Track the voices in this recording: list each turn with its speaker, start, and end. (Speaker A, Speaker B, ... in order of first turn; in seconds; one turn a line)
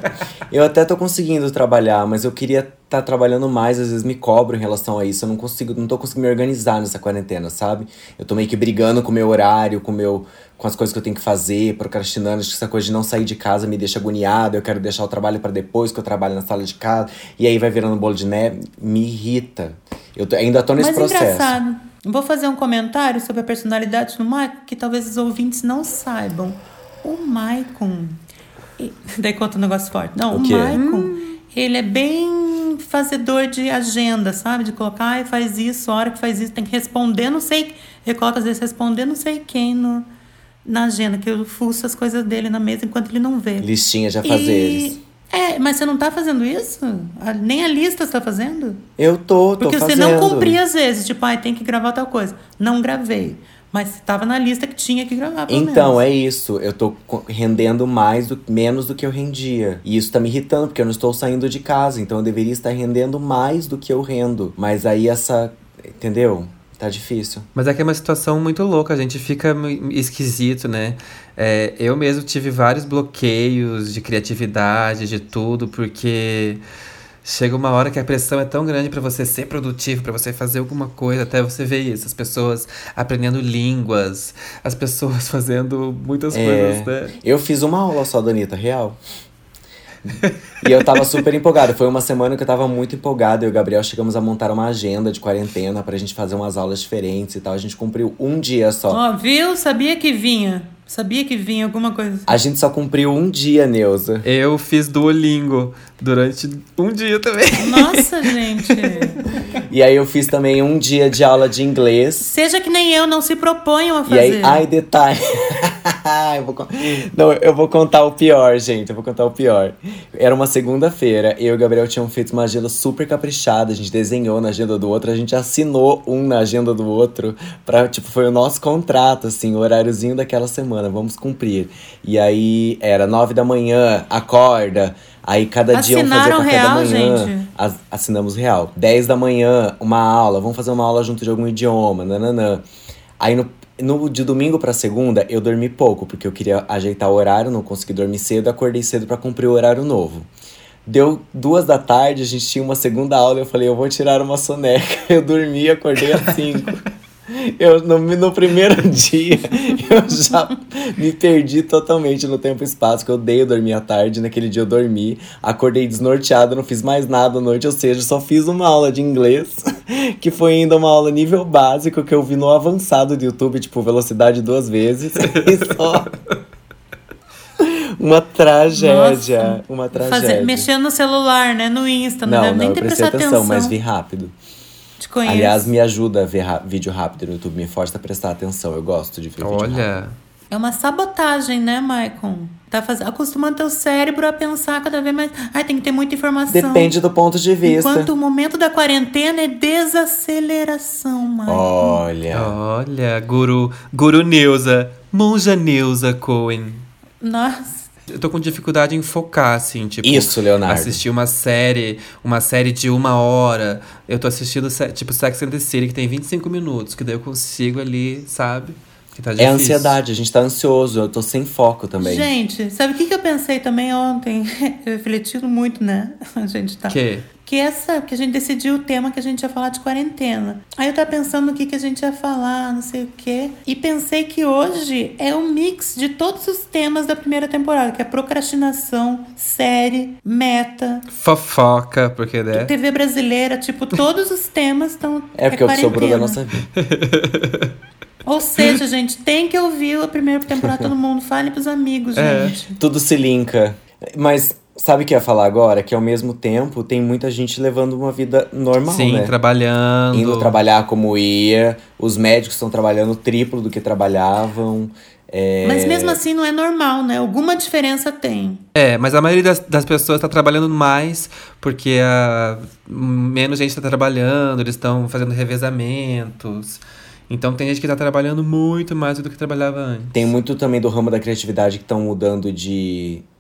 Speaker A: 0.5-21.6
Speaker B: 20.8-28.2
Speaker B: 28.8-40.1
Speaker A: 30.3-30.8
Speaker C: 30.7-31.4
Speaker B: 40.6-43.7
Speaker A: 43.6-45.0
Speaker B: 44.2-48.8
Speaker A: 49.0-50.6
Speaker B: 49.6-56.0
Speaker A: 55.5-67.5
Speaker C: 67.5-76.6
Speaker C: 77.2-87.2
Speaker A: 86.3-89.0
Speaker A: 90.0-99.0
Speaker B: 98.9-102.3
Speaker A: 102.3-104.3
Speaker C: 104.2-109.0
Speaker B: 107.6-109.2
Speaker A: 109.7-112.3
Speaker B: 112.2-114.6
Speaker A: 114.1-142.7
Speaker B: 135.7-137.5
Speaker A: 143.2-150.3
Speaker A: 150.9-176.1
Speaker A: 177.6-180.7
Speaker B: 178.7-183.8
Speaker A: 182.2-184.3
Speaker B: 185.0-185.7
Speaker A: 185.2-189.9
Speaker C: 189.4-190.2
Speaker B: 190.5-196.9
Speaker A: 196.5-198.1
Speaker B: 197.6-202.0
Speaker A: 201.4-202.6
Speaker C: 202.3-206.8
Speaker B: 207.2-207.9
Speaker C: 208.1-220.0
Speaker A: 210.0-211.0
Speaker A: 219.4-222.3
Speaker B: 222.0-241.1
Speaker C: 226.9-227.3
Speaker C: 241.1-242.7
Speaker B: 242.5-246.4
Speaker A: 245.3-246.7
Speaker C: 246.7-247.7
Speaker B: 248.2-252.8
Speaker A: 250.6-250.9
Speaker C: 252.2-252.6
Speaker A: 252.8-259.3
Speaker C: 258.9-260.6
Speaker A: 260.1-266.2
Speaker B: 265.6-268.6
Speaker C: 268.8-280.3
Speaker A: 280.1-283.2